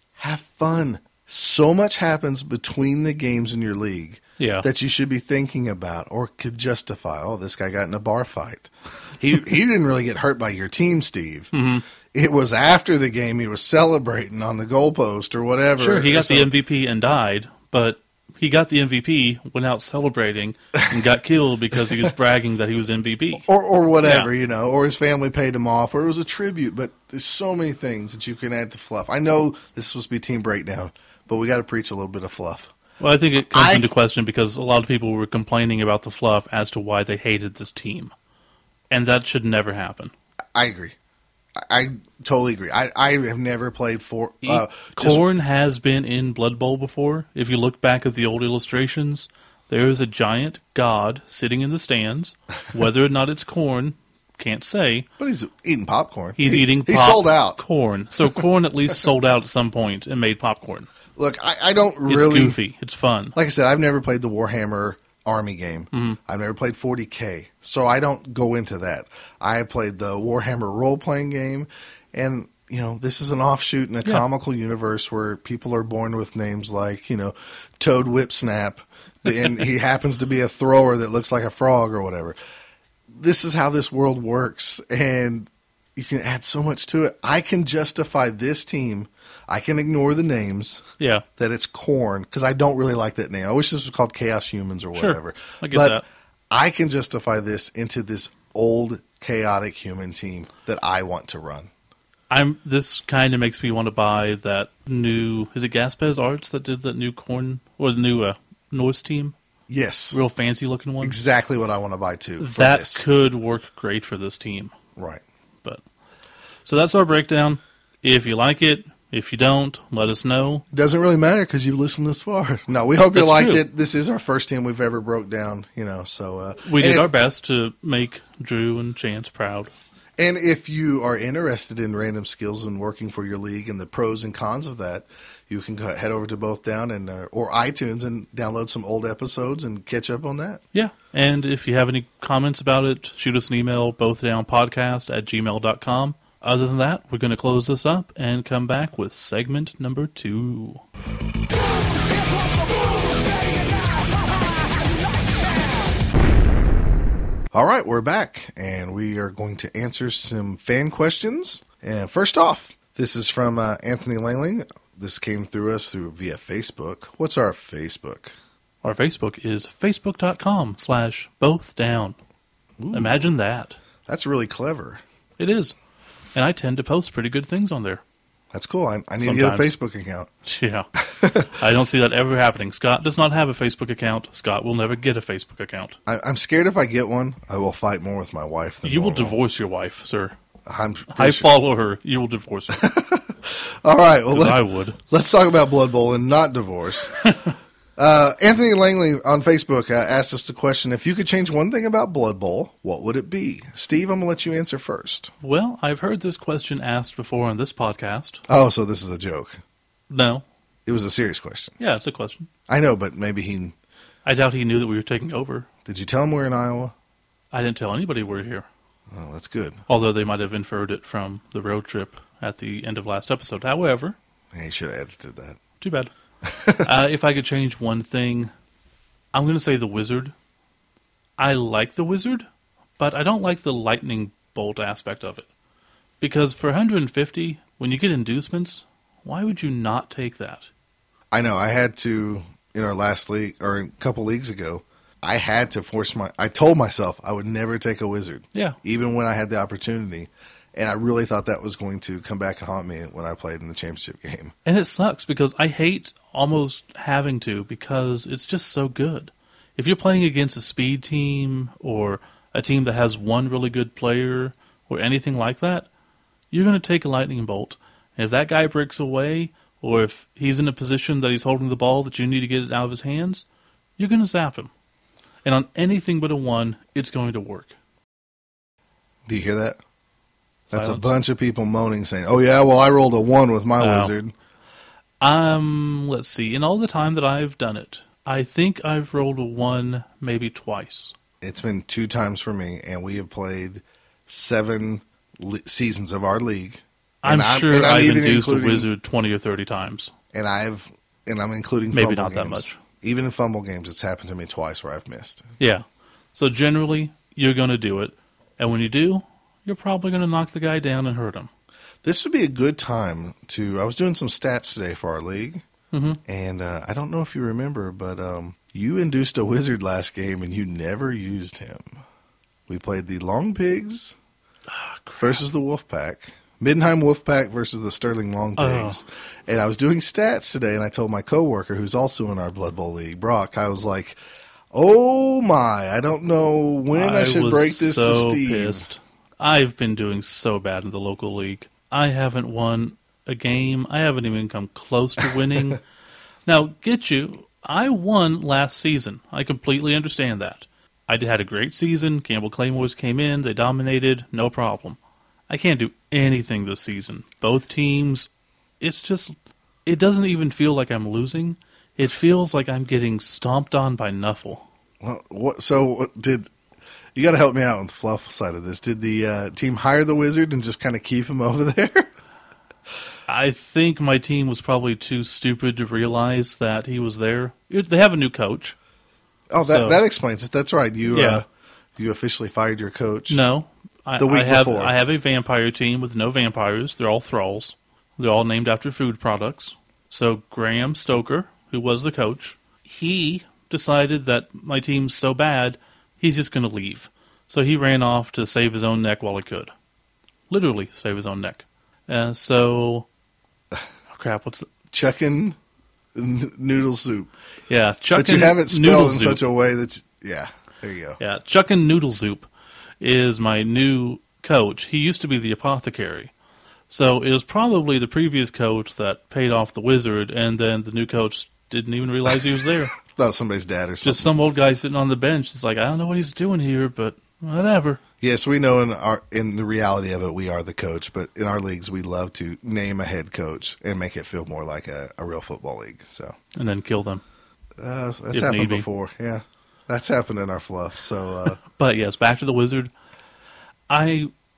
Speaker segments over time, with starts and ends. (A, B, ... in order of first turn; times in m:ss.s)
0:00.2-0:11.5 A
0:04.4-0:04.6 B
0:11.5-0:11.8 B
0:12.1-0:16.5 A
0:15.8-0:23.4 B
0:23.4-0:32.7 A
0:24.0-0:24.3 B
0:33.0-0:38.1 B
0:33.5-0:33.9 A
0:38.9-0:40.1 B
0:40.5-0:40.9 A
0:41.6-0:45.2 A
0:44.4-0:55.1 B
0:55.2-0:57.6 A
0:56.4-1:00.9 B
1:01.2-1:02.6 A
1:02.1-1:03.4 B
1:03.3-1:22.4 A
1:05.9-1:06.2 B
1:23.1-1:30.8 A
1:31.0-1:31.2 B
1:31.4-1:41.7 A
1:34.9-1:36.0 B
1:42.3-1:49.3 B
1:49.7-1:50.2 A
1:50.1-1:51.2 B
1:51.0-1:53.0 A
1:52.4-1:54.7 B
1:55.0-1:55.2 A
1:56.6-2:00.6 B
2:00.7-2:07.1 A
2:03.1-2:03.6 B
2:06.6-2:09.7 B
2:10.2-2:20.6 A
2:20.7-2:30.8 B
2:31.5-2:36.1 C
2:37.5-2:48.3 A
2:48.8-2:52.2 B
2:52.8-2:53.2 A
2:52.9-2:53.8 B
2:54.0-2:55.0 A
2:55.4-2:55.7 B
2:56.3-2:58.0 B
2:58.5-3:00.3 A
2:59.2-2:59.7 B
3:00.4-3:06.0 B
3:01.0-3:01.5 A
3:06.0-3:09.4 A
3:08.8-3:10.3 B
3:10.6-3:11.5 A
3:11.1-3:12.9 B
3:12.7-3:17.2 A
3:14.3-3:15.0 B
3:17.2-3:17.5 B
3:18.0-3:25.3 A
3:25.4-3:28.4 B
3:28.5-3:29.6 A
3:30.1-3:30.4 B
3:30.8-3:31.8 A
3:31.8-3:32.5 B
3:32.7-3:33.7 A
3:34.2-3:35.7 B
3:35.8-3:36.9 A
3:37.5-3:38.7 B
3:39.1-3:39.8 A
3:39.9-3:44.2 B
3:44.5-3:45.6 A
3:45.8-3:46.1 B
3:46.4-3:46.9 A
3:46.8-3:48.5 B
3:49.3-3:50.3 B
3:51.4-3:52.5 B
3:53.0-3:55.5 B
3:56.2-4:00.7 B
4:01.3-4:14.5 A
4:14.6-4:25.9 B
4:26.5-4:33.4 B
4:34.0-4:34.7 B
4:35.4-4:37.7 B
4:39.3-4:39.8 A
4:40.7-4:44.3 A
4:40.7-4:41.1 B
4:43.8-4:44.1 B
4:45.2-4:51.1 B
4:51.4-4:58.9 A
4:57.2-5:00.1 B
5:00.3-5:05.5 A
5:01.9-5:02.8 B
5:05.6-5:11.5 B
5:12.0-5:15.6 A
5:15.9-5:16.2 B
5:16.2-5:22.0 A
5:22.7-5:24.2 A
5:24.7-5:25.4 B
5:25.2-5:34.2 A
5:28.6-5:29.0 B
5:34.7-5:38.8 A
5:36.9-5:45.8 B
5:46.4-5:55.0 B
5:55.5-5:58.3 B
5:58.8-5:59.3 B
5:59.8-6:04.6 B
6:05.0-6:06.5 A
6:07.1-6:12.1 A
6:13.3-6:18.8 B
6:19.5-6:21.4 A
6:19.6-6:20.0 B
6:21.1-6:21.4 B
6:22.0-6:23.4 A
6:23.3-6:39.7 B
6:24.2-6:24.9 A
6:40.5-6:43.1 B
6:44.1-6:44.7 B
6:44.9-6:45.6 A
6:46.1-6:47.3 A
6:47.7-6:49.4 B
6:48.1-6:51.2 A
6:51.2-6:52.5 B
6:53.0-6:56.3 B
6:56.9-7:02.9 B
7:03.0-7:04.3 A
7:04.0-7:08.0 B
7:08.2-7:16.3 A
7:16.5-7:17.2 B
7:17.8-7:21.6 A
7:18.3-7:18.9 B
7:21.6-7:22.9 B
7:23.9-7:24.3 B